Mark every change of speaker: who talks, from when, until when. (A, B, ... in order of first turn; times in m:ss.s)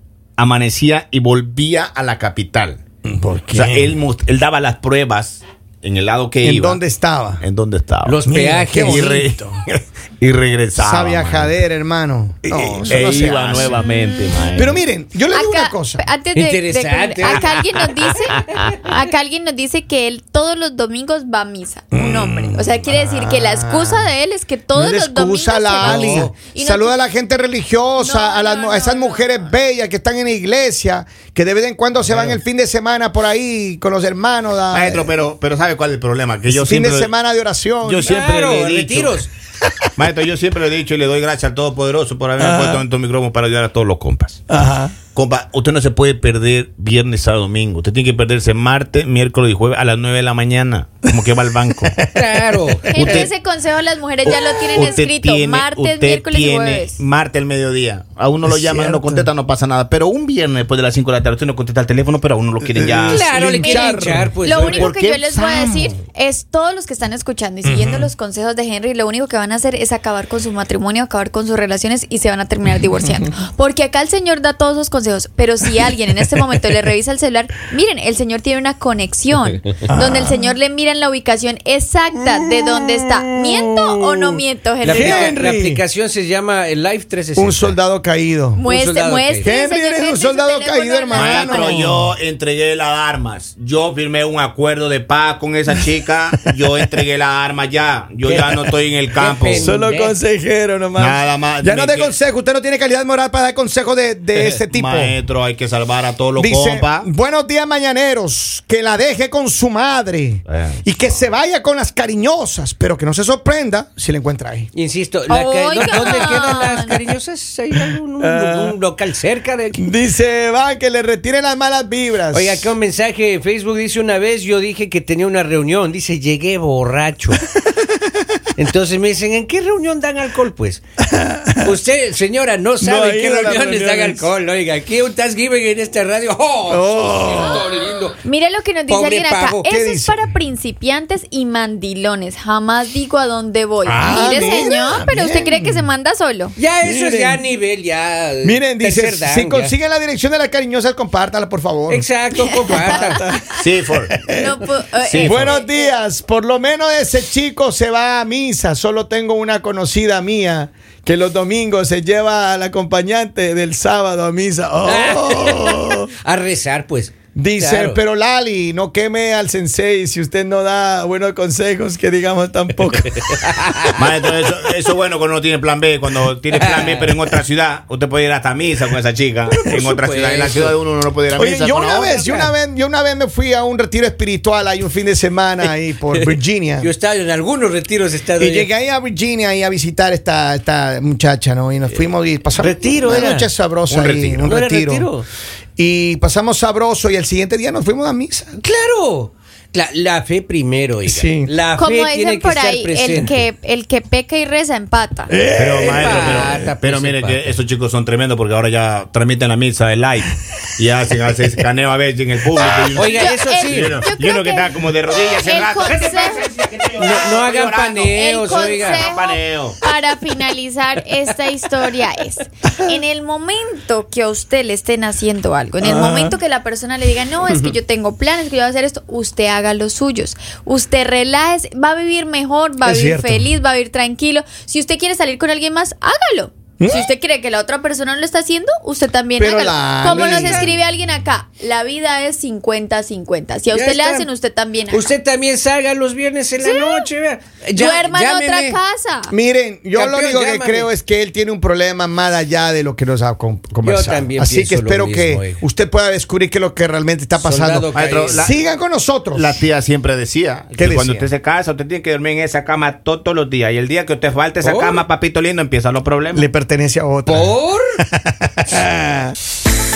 0:00.4-0:02.8 A
0:03.0-0:04.0 B
0:03.5-0:06.8 A
0:06.4-0:07.4 B
0:07.4-0:08.2 A
0:08.0-0:09.1 C
0:08.3-0:09.6 B
0:08.7-0:11.5 A
0:10.7-0:13.8 B
0:12.4-0:14.8 A
0:13.6-0:14.6 D
0:14.5-0:16.0 B
0:15.3-0:27.0 D
0:16.3-0:19.0 C
0:21.9-0:24.1 B
0:24.7-0:35.1 B
0:25.8-0:26.3 C
0:28.0-0:29.5 D
0:32.1-0:32.4 C
0:34.7-0:37.1 A
0:36.5-0:38.1 B
0:37.8-0:39.2 A
0:38.0-0:39.3 C
0:40.0-0:44.4 A
0:42.4-0:42.8 B
0:44.5-0:44.9 B
0:45.1-0:51.9 A
0:51.7-0:52.1 B
0:52.1-0:53.3 C
0:52.9-0:57.0 D
0:52.9-0:53.3 A
0:54.7-1:03.4 A
0:58.4-0:59.3 B
1:02.6-1:04.3 B
1:03.1-1:04.9 C
1:04.4-1:25.4 D
1:04.6-1:05.5 A
1:05.4-1:05.9 B
1:07.6-1:08.1 B
1:19.9-1:20.5 B
1:23.7-1:25.8 B
1:24.8-1:27.8 C
1:27.4-1:28.6 B
1:28.6-1:31.8 D
1:28.6-1:29.5 C
1:29.4-1:32.1 B
1:31.1-1:39.7 A
1:38.2-1:40.2 C
1:39.6-1:45.2 B
1:41.0-1:42.1 A
1:44.7-1:47.1 A
1:46.4-1:54.7 B
1:50.5-1:50.8 A
1:54.7-1:59.9 C
1:55.3-1:57.0 D
1:58.2-1:58.8 B
1:59.8-2:02.7 B
2:02.3-2:07.5 C
2:08.6-2:10.8 C
2:11.0-2:11.7 B
2:11.6-2:18.2 C
2:12.8-2:14.3 B
2:16.7-2:17.7 B
2:18.2-2:26.5 D
2:18.9-2:19.7 C
2:19.6-2:20.3 B
2:23.8-2:25.9 B
2:26.6-2:29.7 C
2:26.8-2:27.4 B
2:28.4-2:32.1 B
2:31.9-2:33.2 C
2:32.4-2:33.6 D
2:32.6-2:33.4 B
2:33.5-2:34.1 A
2:34.0-2:34.6 B
2:34.3-2:35.9 D
2:35.0-2:35.6 A
2:35.2-2:46.1 B
2:44.8-2:48.0 C
2:47.3-2:53.3 B
2:53.1-2:53.9 C
2:53.9-3:02.5 A
2:56.5-2:57.4 C
2:59.5-3:00.8 C
3:01.3-3:06.9 B
3:05.6-3:08.7 C
3:08.4-3:15.1 B
3:12.6-3:13.5 C
3:13.9-3:14.6 A
3:14.4-3:15.2 C
3:15.8-3:18.6 B
3:18.6-3:23.4 C
3:21.0-3:21.5 B
3:21.8-3:25.3 D
3:25.3-3:26.7 B
3:25.6-3:39.8 A
3:25.8-3:27.5 C
3:32.9-3:34.0 C
3:33.0-3:36.5 D
3:37.0-3:39.1 C
3:38.1-4:05.1 D
3:45.8-3:46.4 B
3:52.8-3:53.5 B
3:56.8-3:57.1 B
3:59.4-4:00.7 B
4:00.0-4:00.7 C
4:03.7-4:04.3 C
4:04.9-4:08.8 C
4:06.6-4:07.1 D
4:07.7-4:09.3 D
4:09.3-4:19.6 B
4:09.9-4:10.9 C
4:13.8-4:15.6 C
4:17.4-4:18.5 C
4:17.9-4:18.6 A
4:19.3-4:26.4 A
4:20.8-4:21.2 B
4:24.6-4:25.0 C
4:26.3-4:29.3 B
4:27.3-4:28.0 C